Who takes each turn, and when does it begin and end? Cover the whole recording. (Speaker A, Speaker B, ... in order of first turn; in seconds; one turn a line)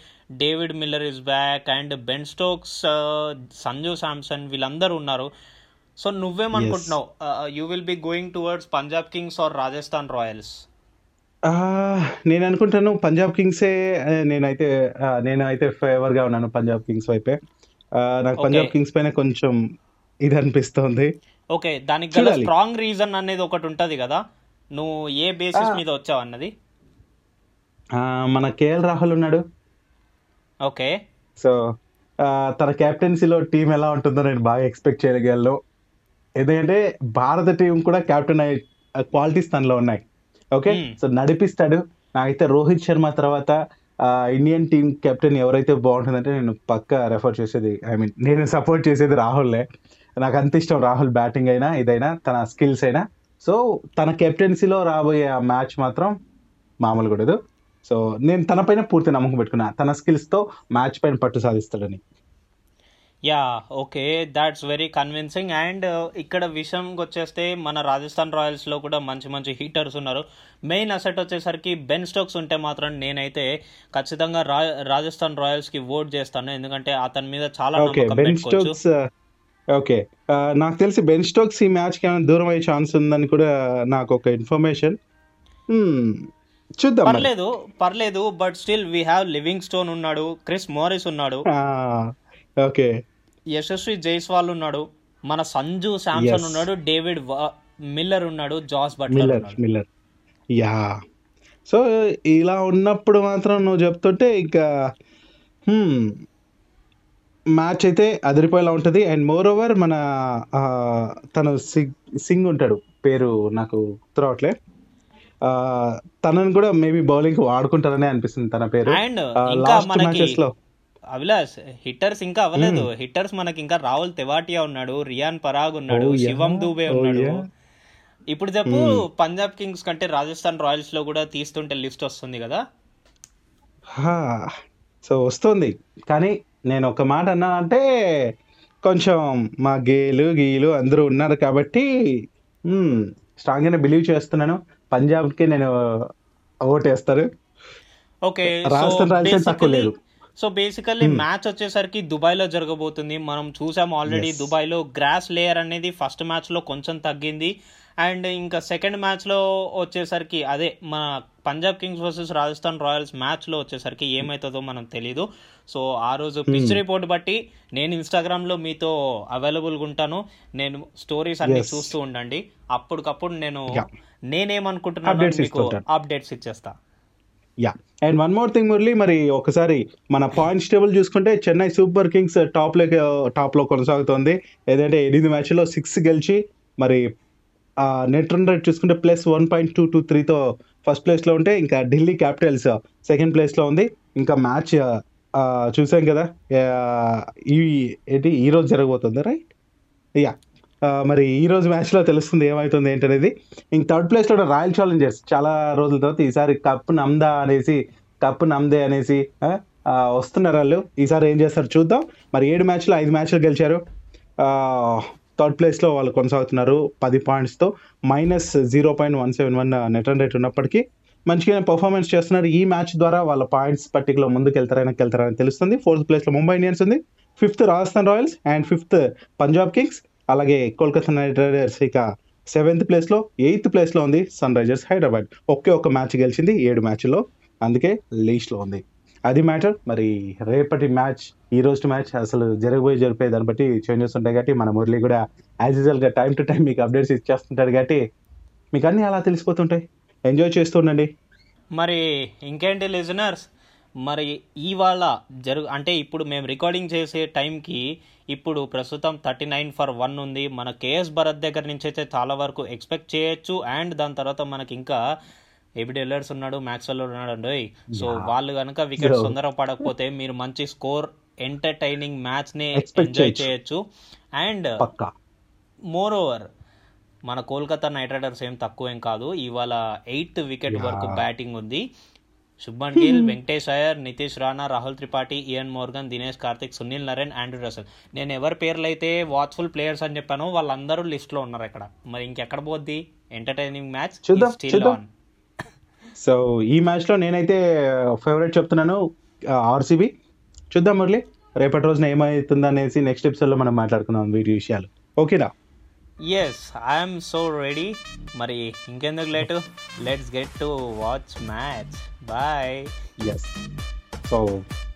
Speaker A: 0.4-5.3
Speaker A: 6.0-10.5
Speaker B: 6.5-6.9
Speaker B: 11.5-17.4
Speaker B: 18.0-19.6
Speaker A: 18.4-18.7
Speaker B: 20.2-21.1
Speaker A: 21.5-24.2
Speaker B: 22.1-22.5
Speaker A: 24.7-26.5
Speaker B: 28.0-29.4
Speaker A: 30.6-30.9
Speaker B: 32.3-35.5
Speaker B: 36.4-38.6
Speaker B: 39.1-40.0
Speaker B: 40.5-43.5
Speaker A: 40.7-41.0
Speaker B: 44.1-49.6
Speaker B: 50.2-56.1
Speaker B: 56.8-62.0
Speaker A: 63.3-78.7
Speaker B: 77.8-78.9
Speaker B: 79.8-84.9
Speaker B: 85.7-86.2
Speaker B: 86.8-87.3
Speaker A: 87.0-91.4
Speaker B: 91.5-92.0
Speaker A: 93.5-99.6
Speaker B: 96.2-96.7
Speaker B: 99.1-99.9
Speaker B: 100.6-100.9
Speaker B: 101.7-104.6
Speaker B: 105.7-106.1
Speaker B: 107.6-110.0
Speaker B: 110.5-114.5
Speaker B: 115.5-119.0
Speaker A: 118.9-120.4
Speaker B: 119.5-120.5
Speaker A: 121.1-127.3
Speaker B: 122.5-122.9
Speaker B: 125.9-127.3
Speaker A: 128.3-132.6
Speaker B: 134.0-134.4
Speaker B: 135.0-137.8
Speaker B: 138.8-141.8
Speaker B: 142.7-145.7
Speaker B: 146.7-147.2
Speaker A: 148.3-176.7
Speaker B: 148.5-149.9
Speaker B: 154.1-154.5
Speaker B: 166.5-166.8
Speaker B: 171.4-171.9
Speaker B: 175.1-175.8
Speaker B: 177.6-187.0
Speaker B: 187.8-194.8
Speaker B: 195.4-199.4
Speaker B: 200.9-213.8
Speaker B: 214.4-248.0
Speaker B: 248.7-251.1
Speaker A: 251.8-253.5
Speaker A: 254.0-265.0
Speaker A: 265.8-273.8
Speaker B: 267.9-268.3
Speaker B: 269.0-269.3
Speaker B: 272.8-273.5
Speaker A: 274.4-274.8
Speaker B: 274.8-275.1
Speaker A: 275.9-276.4
Speaker A: 277.3-281.8
Speaker B: 280.7-281.2
Speaker A: 282.6-295.1
Speaker B: 283.0-283.3
Speaker B: 294.3-295.0
Speaker B: 296.2-297.6
Speaker B: 298.2-299.0
Speaker B: 299.6-300.1
Speaker B: 300.7-305.5
Speaker A: 306.3-312.9
Speaker B: 313.2-313.5
Speaker B: 314.2-314.6